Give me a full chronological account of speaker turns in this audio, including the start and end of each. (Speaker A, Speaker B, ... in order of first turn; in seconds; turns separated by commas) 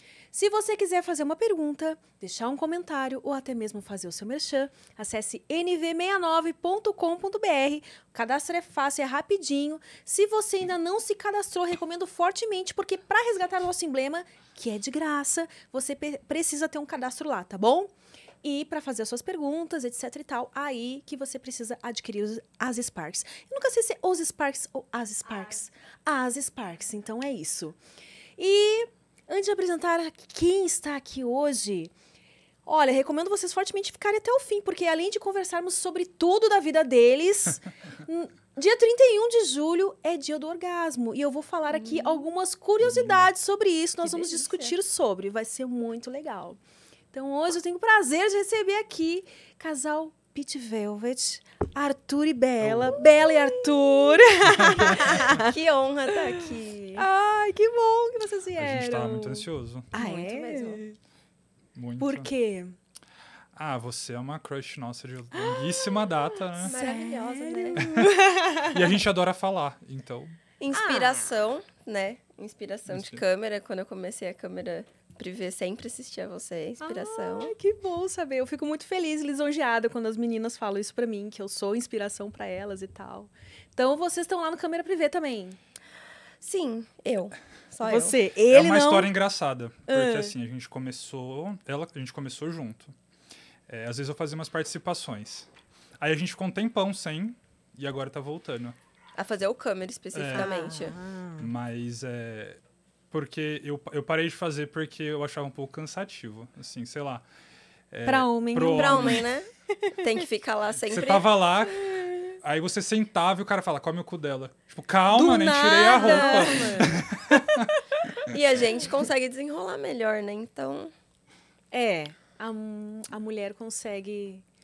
Speaker A: 0.3-27.8, Speaker A: 28.4-31.9, Speaker A: 32.6-46.6, Speaker B: 41.7-42.2, Speaker C: 42.8-43.3, Speaker B: 44.0-44.7, Speaker A: 47.1-55.5, Speaker C: 52.6-53.0, Speaker B: 53.0-57.1, Speaker C: 54.5-55.2, Speaker A: 56.1-56.5, Speaker A: 57.0-61.0, Speaker C: 58.6-59.9, Speaker B: 59.9-60.8, Speaker C: 61.8-62.3, Speaker A: 62.0-62.8, Speaker C: 63.5-66.8, Speaker A: 65.5-66.0, Speaker A: 66.5-68.8, Speaker B: 66.6-68.1, Speaker C: 68.7-70.4, Speaker B: 70.6-77.5, Speaker A: 70.7-71.3, Speaker C: 72.9-73.2, Speaker A: 76.8-85.6, Speaker B: 86.4-88.2, Speaker A: 87.8-89.1, Speaker C: 88.5-92.9, Speaker A: 89.9-90.2, Speaker C: 93.7-95.5, Speaker C: 96.0-98.8, Speaker B: 99.2-101.0, Speaker C: 100.1-100.5, Speaker A: 100.3-101.5, Speaker C: 101.4-102.6, Speaker C: 103.1-107.2, Speaker C: 107.9-109.3, Speaker A: 108.1-110.2, Speaker B: 108.6-112.2, Speaker C: 110.9-111.8, Speaker C: 112.4-117.7, Speaker A: 115.1-118.0, Speaker B: 115.9-116.9, Speaker B: 118.2-120.9, Speaker A: 121.7-124.4